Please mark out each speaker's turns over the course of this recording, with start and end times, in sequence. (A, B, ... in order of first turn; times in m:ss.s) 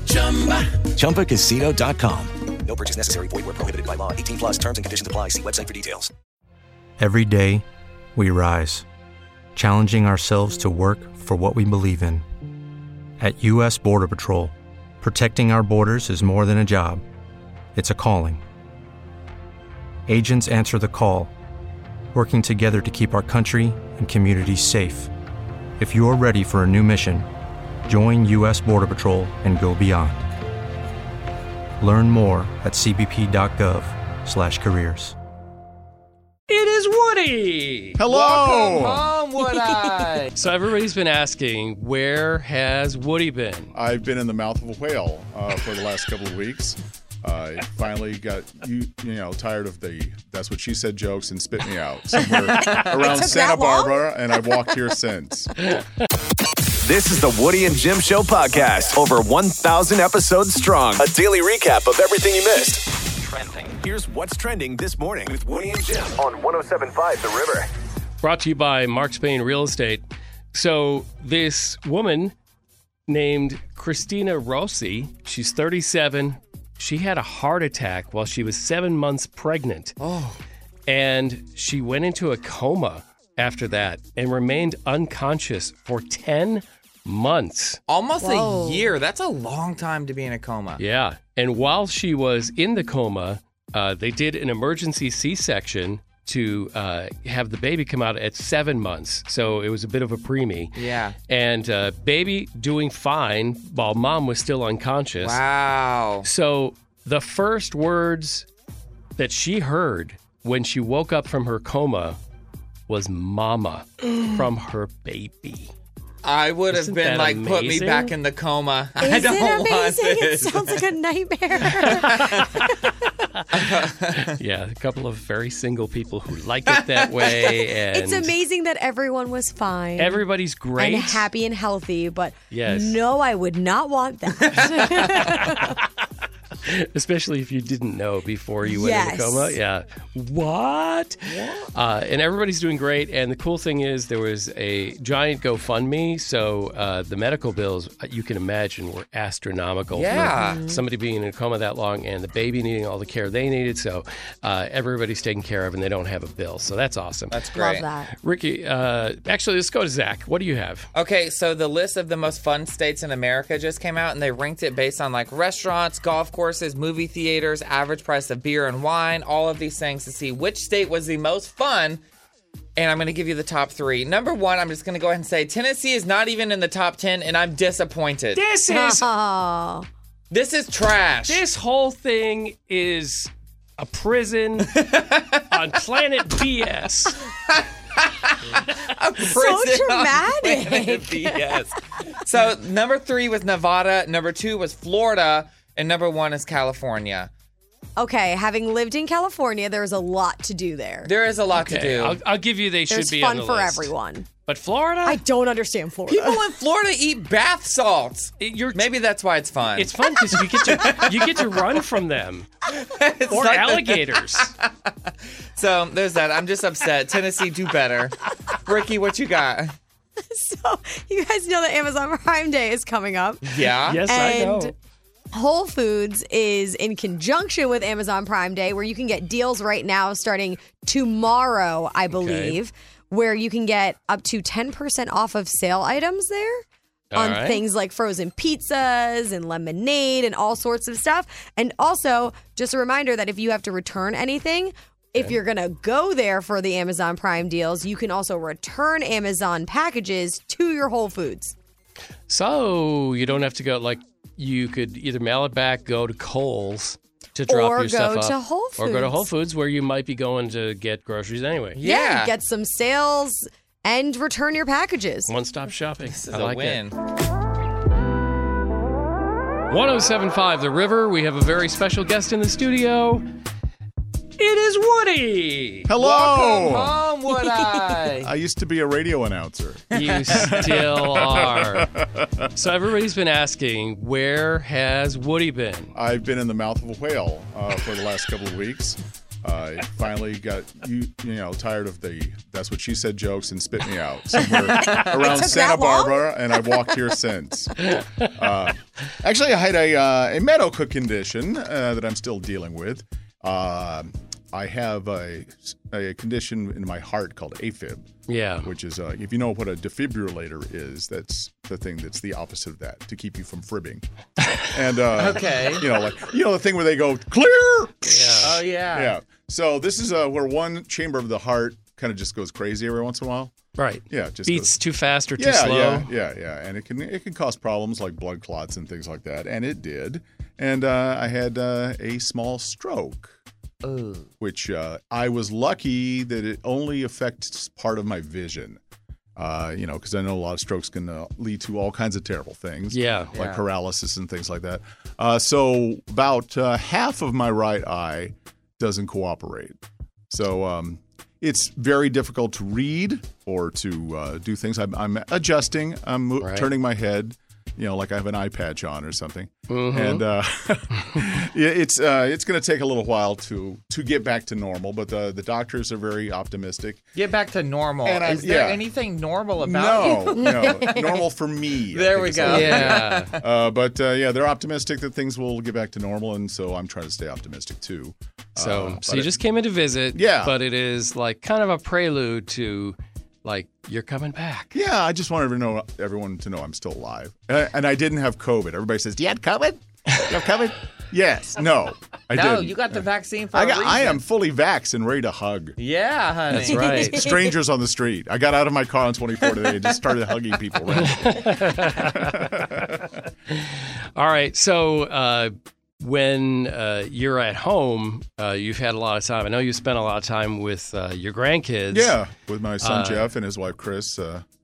0:00.8-0:06.1 A
0:07.0-0:07.6 B
0:08.2-0:08.8 B
0:09.6-0:12.2 B
0:13.2-0:17.0 B
0:17.8-0:18.4 B
0:20.1-0:21.3 B
0:22.1-0:25.1 B
0:25.8-0:27.3 B
0:27.8-0:30.2 B
0:31.8-0:35.2 B
0:36.5-0:38.0 C
0:38.0-0:39.1 D
0:38.1-0:40.3 E
0:40.4-0:43.7 C
0:43.7-0:55.5 D
0:52.6-0:54.0 F
0:56.8-1:02.8 G
1:03.5-1:07.7 G
1:08.2-1:12.4 C
1:13.1-1:20.0 C
1:20.0-1:20.4 E
1:20.9-1:27.8 C
1:27.9-1:30.8 E
1:28.2-1:28.9 F
1:30.8-1:40.8 C
1:40.8-1:41.2 E
1:41.3-1:45.4 C
1:45.2-1:46.3 E
1:46.2-1:48.5 C
1:49.2-1:52.2 C
1:52.9-1:55.7 C
1:56.2-2:00.9 E
1:56.7-1:58.1 C
1:59.0-2:02.9 F
2:01.8-2:02.7 C
2:02.2-2:02.5 E
2:03.3-2:08.3 C
2:03.5-2:04.4 E
2:06.7-2:07.1 E
2:07.3-2:10.2 F
2:10.0-2:11.3 C
2:10.8-2:15.8 F
2:12.5-2:13.0 C
2:15.3-2:15.9 C
2:16.6-2:37.4 C
2:18.6-2:19.6 F
2:30.0-2:30.7 E
2:30.2-2:30.8 F
2:37.3-2:37.9 E
2:37.6-2:38.1 F
2:38.2-2:40.9 C
2:40.9-2:52.0 E
2:52.8-2:58.4 E
2:58.4-2:59.1 C
2:58.7-2:59.9 F
3:00.3-3:01.4 E
3:01.3-3:04.8 C
3:04.7-3:05.4 E
3:05.5-3:07.2 C
3:07.5-3:17.3 E
3:09.3-3:11.6 F
3:18.0-3:21.1 F
3:21.0-3:22.2 E
3:21.5-3:23.9 C
3:22.9-3:24.3 F
3:24.5-3:25.2 C
3:25.0-3:26.4 F
3:26.1-3:31.4 E
3:28.4-3:28.9 C
3:29.8-3:32.5 C
3:32.7-3:34.7 E
3:33.3-3:34.5 C
3:35.6-3:39.7 E
3:40.3-3:44.7 F
3:43.4-3:44.0 E
3:43.8-3:44.7 C
3:45.3-3:56.6 F
3:52.1-3:52.6 C
3:57.1-3:57.6 C
3:57.2-4:11.6 F
4:12.3-4:21.8 C
4:17.5-4:19.3 F
4:21.8-4:22.3 E
4:21.8-4:25.3 F
4:25.3-4:26.8 C
4:26.1-4:27.0 E
4:29.7-4:33.2 C
4:34.4-4:35.9 C
4:35.9-4:37.0 D
4:36.0-4:38.3 E
4:38.2-4:42.5 D
4:39.9-4:41.9 C
4:40.0-4:40.5 E
4:42.6-4:45.9 C
4:45.9-5:08.1 D
4:54.5-4:56.9 F
4:57.9-4:58.2 C
5:08.3-5:08.7 C
5:08.6-5:14.0 D
5:14.6-5:23.5 D
5:15.2-5:15.9 E
5:18.1-5:18.6 C
5:18.4-5:19.1 E
5:23.8-5:26.1 C
5:24.1-5:24.8 D
5:25.4-5:33.4 D
5:33.8-5:34.3 E
5:34.4-5:38.8 D
5:39.4-5:49.8 D
5:42.9-5:43.3 C
5:43.3-5:43.6 E
5:50.3-6:07.0 D
5:56.4-5:56.7 C
5:59.7-6:00.2 C
6:07.2-6:10.7 E
6:08.0-6:08.8 D
6:09.6-6:19.4 D
6:10.0-6:11.2 F
6:11.9-6:13.4 E
6:12.4-6:13.3 C
6:18.6-6:24.7 C
6:20.1-6:20.6 D
6:24.7-6:35.8 D
6:32.3-6:34.2 E
6:35.8-6:37.0 E
6:36.5-6:37.3 C
6:36.7-6:37.5 F
6:37.1-6:43.2 D
6:41.0-6:42.9 C
6:43.5-6:52.2 C
6:51.9-6:54.4 D
6:52.8-6:53.3 C